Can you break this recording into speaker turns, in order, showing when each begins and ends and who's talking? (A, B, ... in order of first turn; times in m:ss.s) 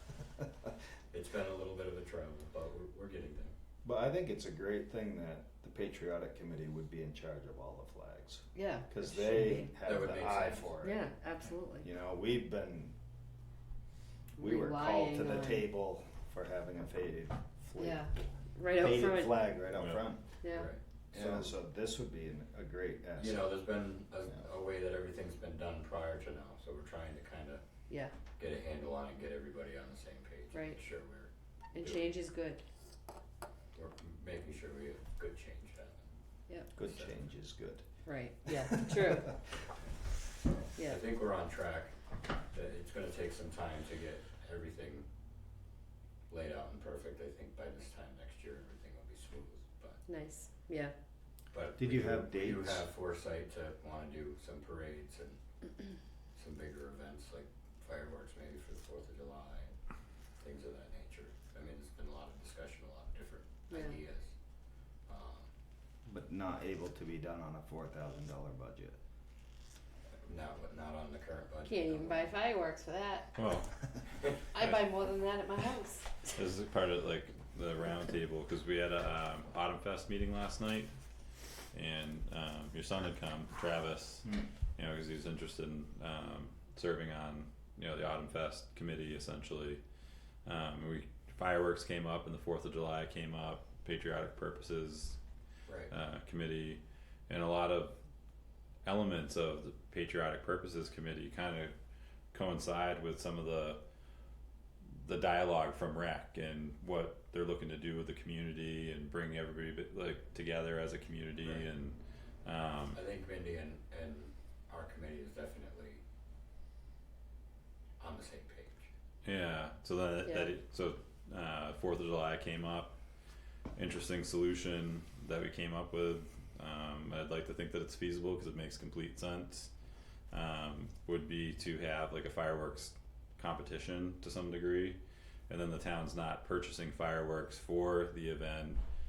0:01.1-0:03.6 A
0:03.8-0:11.0 B
0:08.6-0:09.7 C
0:09.8-0:10.7 A
0:10.8-0:11.9 C
0:11.8-0:12.9 B
0:14.4-0:15.7 C
0:14.4-0:18.1 B
0:17.8-0:19.6 C
0:18.7-0:20.2 B
0:20.4-0:20.7 C
0:20.5-0:21.5 A
0:21.1-0:23.5 B
0:23.2-0:27.6 A
0:28.4-0:32.1 A
0:30.5-0:30.8 C
0:31.7-0:32.6 C
0:33.7-0:36.1 A
0:36.8-0:37.8 B
0:36.8-0:37.1 A
0:38.0-0:39.4 C
0:38.5-0:39.2 B
0:40.8-0:41.9 A
0:42.5-0:45.1 A
0:46.3-0:50.0 A
0:50.1-0:50.9 C
0:51.5-0:55.4 A
0:51.8-0:52.8 B
0:56.4-0:59.8 A
1:00.4-1:04.3 A
1:03.7-1:04.0 C
1:05.1-1:05.5 A
1:06.1-1:09.0 B
1:10.2-1:12.3 A
1:11.6-1:13.5 C
1:13.4-1:14.8 D
1:14.5-1:16.4 C
1:16.4-1:20.9 D
1:21.7-1:29.8 D
1:30.4-1:35.2 D
1:35.7-1:35.9 A
1:35.9-1:38.0 D
1:38.8-1:41.7 D
1:42.3-1:43.8 D
1:45.0-1:53.0 D
1:52.9-1:56.0 A
1:58.0-1:58.9 A
1:59.2-2:03.0 D
2:00.2-2:00.5 C
2:03.8-2:09.7 D
2:10.3-2:15.0 D
2:15.5-2:18.8 D